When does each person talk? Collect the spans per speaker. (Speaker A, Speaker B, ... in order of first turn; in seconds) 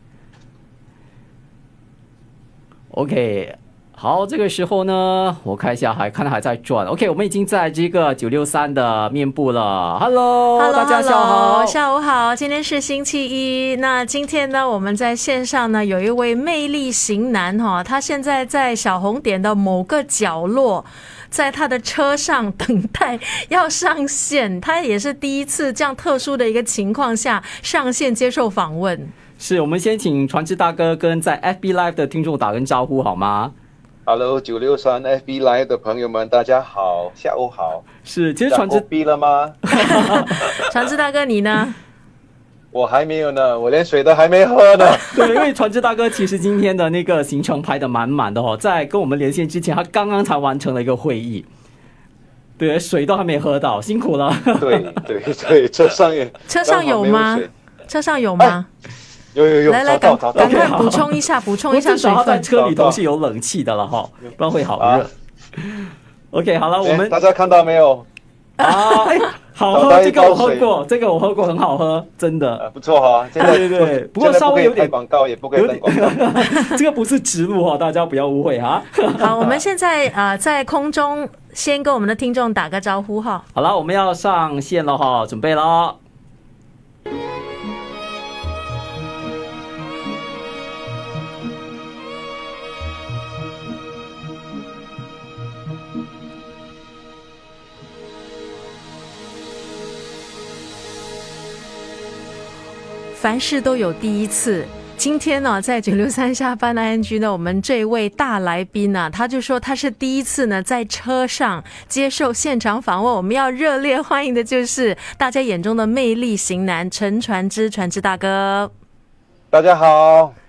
Speaker A: 2.9-11.8, 29.4-33.5, 38.0-38.8, 39.6-40.6, 45.1-51.5, 52.6-55.0, 60.3-67.2, 68.6-72.7, 73.4-74.9, 75.5-79.6, 83.5-86.0
Speaker B: 10.6-29.1, 39.8-41.8, 56.5-58.7, 59.7-62.5, 68.6-69.2, 79.2-83.4, 103.1-118.7
Speaker C: 34.0-37.8, 38.5-39.6, 42.7-45.0, 54.6-57.5, 59.3-60.8, 62.5-63.0, 64.2-65.1, 66.8-68.1, 69.7-70.7, 72.6-76.2, 119.5-120.3